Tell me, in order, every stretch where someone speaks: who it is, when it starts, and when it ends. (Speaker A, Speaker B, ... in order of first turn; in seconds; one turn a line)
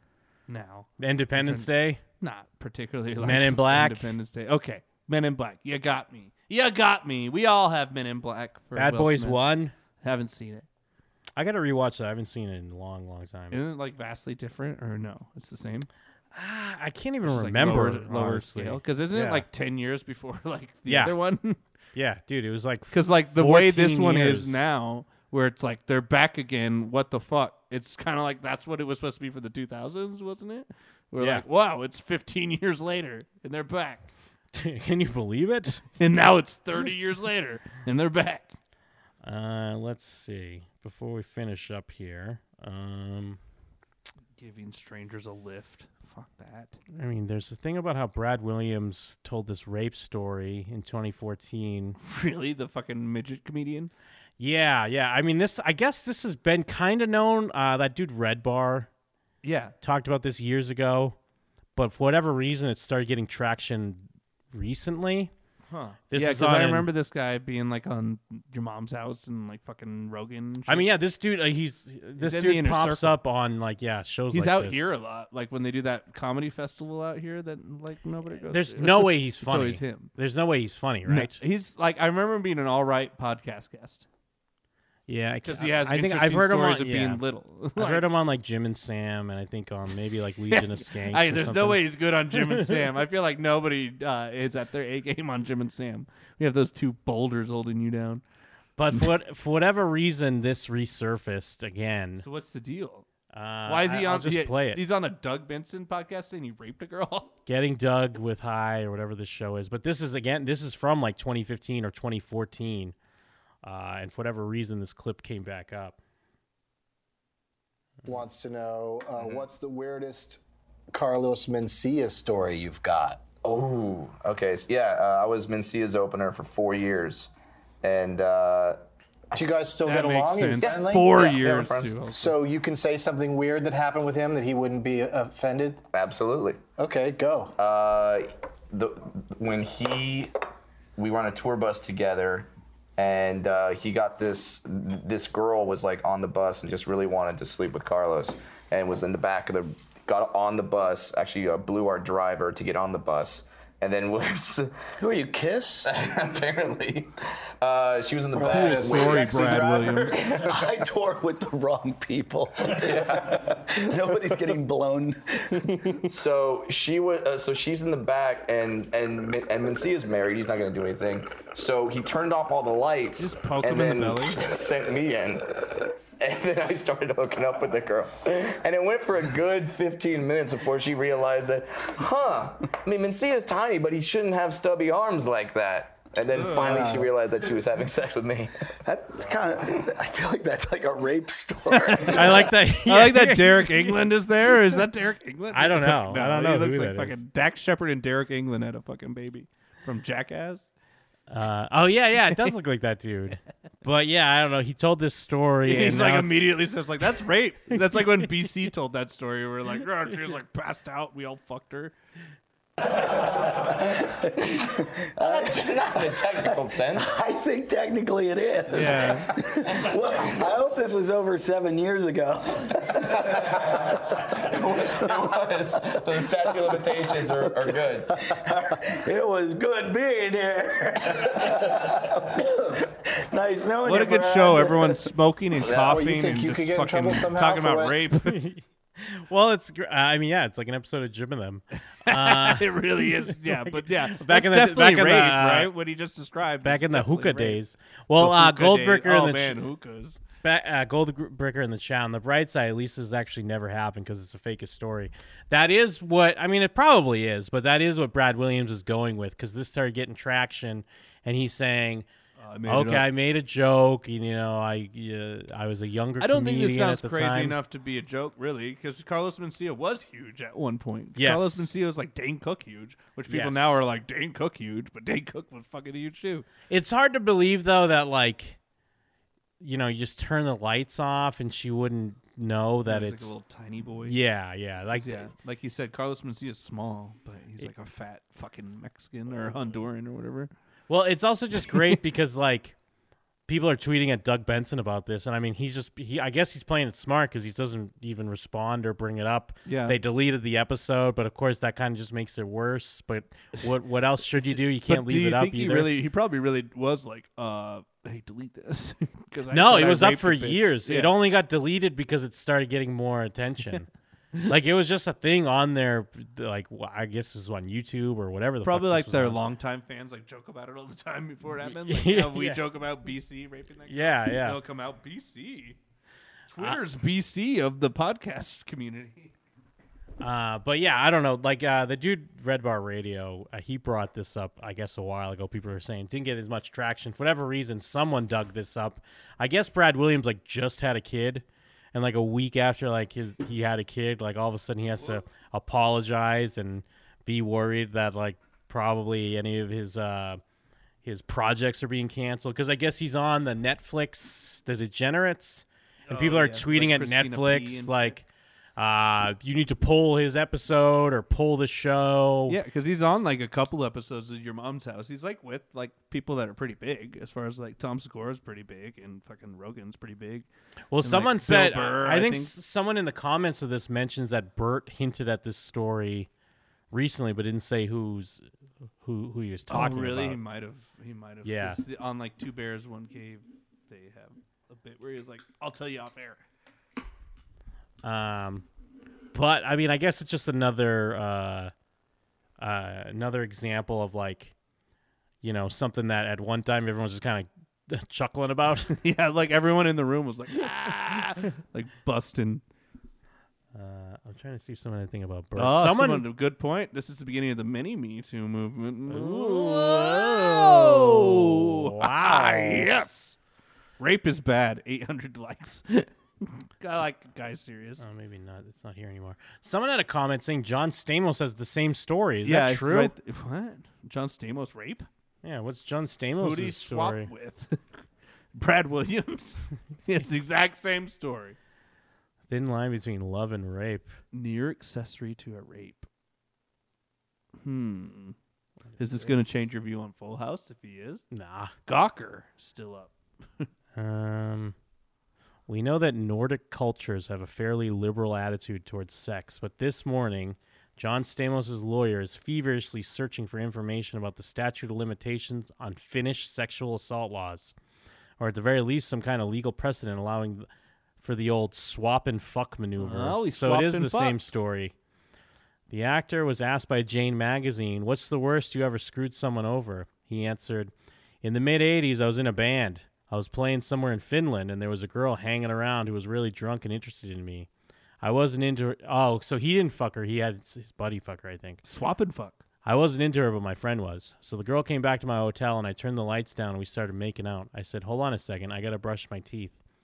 Speaker A: 0.5-9.4
Speaker B: 1.0-2.0
Speaker B: 3.2-4.1
Speaker B: 8.8-9.7
Speaker A: 10.0-10.7
Speaker B: 11.4-13.6
Speaker A: 13.5-15.9
Speaker B: 16.3-19.4
Speaker A: 17.2-21.6
Speaker B: 20.9-21.1
Speaker B: 21.9-24.6
Speaker A: 22.9-34.1
Speaker B: 31.2-31.4
Speaker B: 34.5-35.8
Speaker A: 36.0-38.5
Speaker B: 39.2-43.4
Speaker A: 44.4-46.8
Speaker B: 46.9-52.0
Speaker A: 52.0-53.9
Speaker B: 54.4-58.9
Speaker A: 59.4-59.7
Speaker B: 59.8-61.1
Speaker B: 61.8-65.3
Speaker A: 65.7-70.9
Speaker B: 66.1-66.9
Speaker B: 70.7-74.9
Speaker A: 72.2-73.2
Speaker A: 74.3-80.1
Speaker B: 78.5-81.4
Speaker A: 81.1-84.0
Speaker B: 85.1-87.2
Speaker A: 85.5-88.1
Speaker B: 87.8-91.8
Speaker A: 90.5-98.2
Speaker B: 92.5-92.7
Speaker B: 98.8-102.2
Speaker A: 102.2-103.0
Speaker B: 103.3-104.8
Speaker A: 103.7-107.3
Speaker B: 107.5-112.9
Speaker B: 113.6-116.0
Speaker C: 118.0-120.4
Speaker C: 120.9-123.2
Speaker D: 123.4-127.3
Speaker D: 127.8-128.8
Speaker C: 129.3-131.2
Speaker A: 129.8-132.3
Speaker D: 130.7-132.0
Speaker C: 132.1-135.8
Speaker D: 135.9-136.6
Speaker C: 136.8-137.5
Speaker D: 137.6-140.3
Speaker D: 141.0-154.7
Speaker E: 155.0-155.9
Speaker D: 155.8-160.7
Speaker C: 158.4-159.2
Speaker A: 158.5-160.2
Speaker E: 158.6-159.2
Speaker E: 160.4-165.9
Speaker D: 162.7-163.6
Speaker D: 166.1-175.4
Speaker A: 173.2-174.4
Speaker D: 176.2-188.5
Speaker A: 186.3-186.7
Speaker E: 188.8-192.5
Speaker A: 191.7-200.7
Speaker B: 192.1-193.9
Speaker B: 195.5-197.2
Speaker B: 201.3-206.5
Speaker A: 205.6-211.9
Speaker E: 214.0-224.0
Speaker D: 215.2-217.1
Speaker A: 218.7-219.3
Speaker D: 223.5-228.1
Speaker E: 227.4-235.1
Speaker A: 233.8-238.3
Speaker C: 235.9-238.0
Speaker B: 238.2-245.7
Speaker A: 242.1-247.6
Speaker B: 246.6-249.6
Speaker A: 248.2-250.2
Speaker B: 250.4-262.1
Speaker A: 262.4-263.1
Speaker B: 262.7-267.5
Speaker A: 266.2-276.4
Speaker B: 271.1-271.7
Speaker B: 273.3-273.8
Speaker B: 276.7-278.6
Speaker B: 279.6-283.3
Speaker A: 282.9-284.2
Speaker B: 284.1-285.3
Speaker A: 284.9-290.5
Speaker B: 290.9-292.7
Speaker A: 291.6-291.9
Speaker B: 293.5-305.9
Speaker A: 299.6-300.0
Speaker A: 304.4-311.1
Speaker B: 309.5-313.9
Speaker B: 314.5-319.4
Speaker A: 318.6-325.8
Speaker B: 321.9-322.6
Speaker B: 323.9-324.6
Speaker A: 326.5-329.3
Speaker B: 330.2-350.4
Speaker B: 351.0-358.2
Speaker A: 356.1-358.1
Speaker B: 358.8-362.6
Speaker A: 362.5-370.5
Speaker B: 370.9-376.3
Speaker A: 371.0-372.5
Speaker B: 376.9-378.4
Speaker B: 379.0-380.4
Speaker A: 379.7-386.4
Speaker B: 381.4-381.8
Speaker B: 388.0-388.6
Speaker B: 389.3-391.7
Speaker B: 392.6-394.5
Speaker B: 395.4-398.9
Speaker A: 398.9-402.6
Speaker B: 403.7-406.2
Speaker A: 405.6-413.4
Speaker B: 409.1-412.9
Speaker A: 414.0-418.0
Speaker B: 418.0-423.1
Speaker A: 422.4-425.1
Speaker B: 425.4-427.3
Speaker A: 426.4-431.6
Speaker B: 432.5-434.1
Speaker A: 434.3-436.1
Speaker A: 437.6-438.4
Speaker B: 438.9-439.6
Speaker A: 439.0-441.2
Speaker B: 441.3-441.7
Speaker A: 441.9-443.7
Speaker B: 443.9-444.7
Speaker B: 445.7-457.7
Speaker B: 458.4-460.7
Speaker B: 461.2-464.9
Speaker A: 463.0-464.4
Speaker B: 465.9-470.9
Speaker B: 471.4-477.7
Speaker B: 478.2-481.8
Speaker A: 481.8-482.6
Speaker B: 482.8-489.8